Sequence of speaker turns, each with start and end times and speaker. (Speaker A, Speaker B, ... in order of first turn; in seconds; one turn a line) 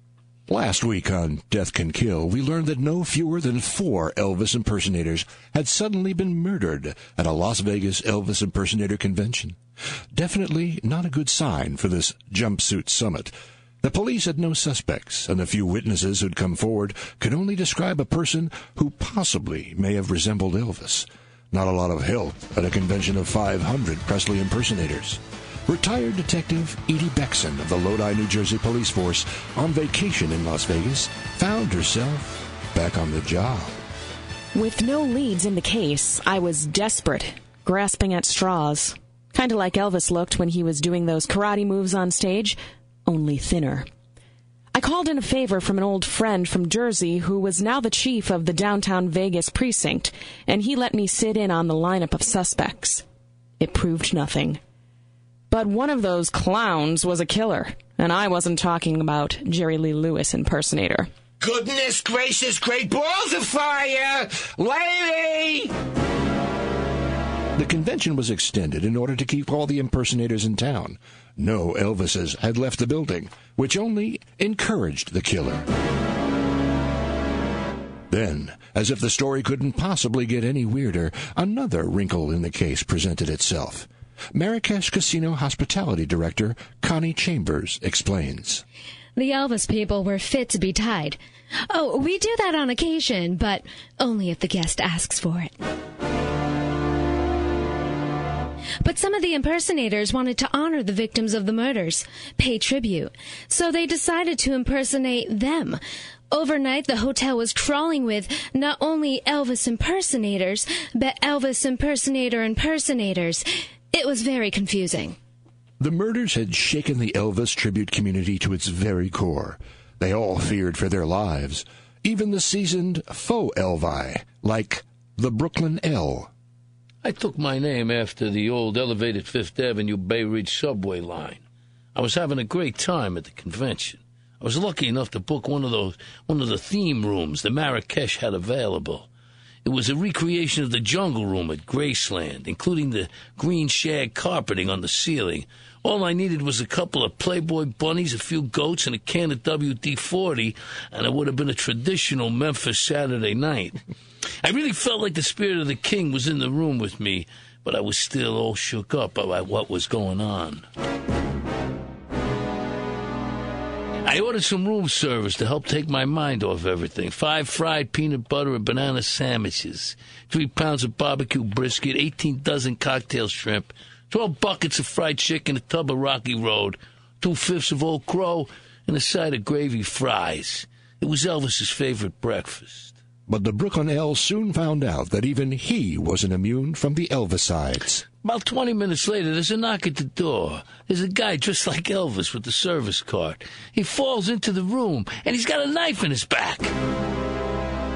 Speaker A: 0.5-9.6
Speaker A: 10.1-33.7
Speaker B: 34.5-43.9
Speaker B: 44.7-53.0
Speaker B: 53.6-54.6
Speaker B: 55.5-61.1
Speaker A: 61.4-65.7
Speaker A: 67.5-75.7
Speaker A: 78.1-88.6
Speaker C: 89.2-91.2
Speaker C: 91.7-95.5
Speaker C: 98.8-105.8
Speaker C: 106.3-115.2
Speaker A: 115.8-126.3
Speaker D: 127.0-131.4
Speaker D: 131.9-139.1
Speaker D: 139.6-153.8
Speaker D: 154.4-160.7
Speaker D: 164.0-182.9
Speaker A: 183.3-188.1
Speaker D: 188.2-196.7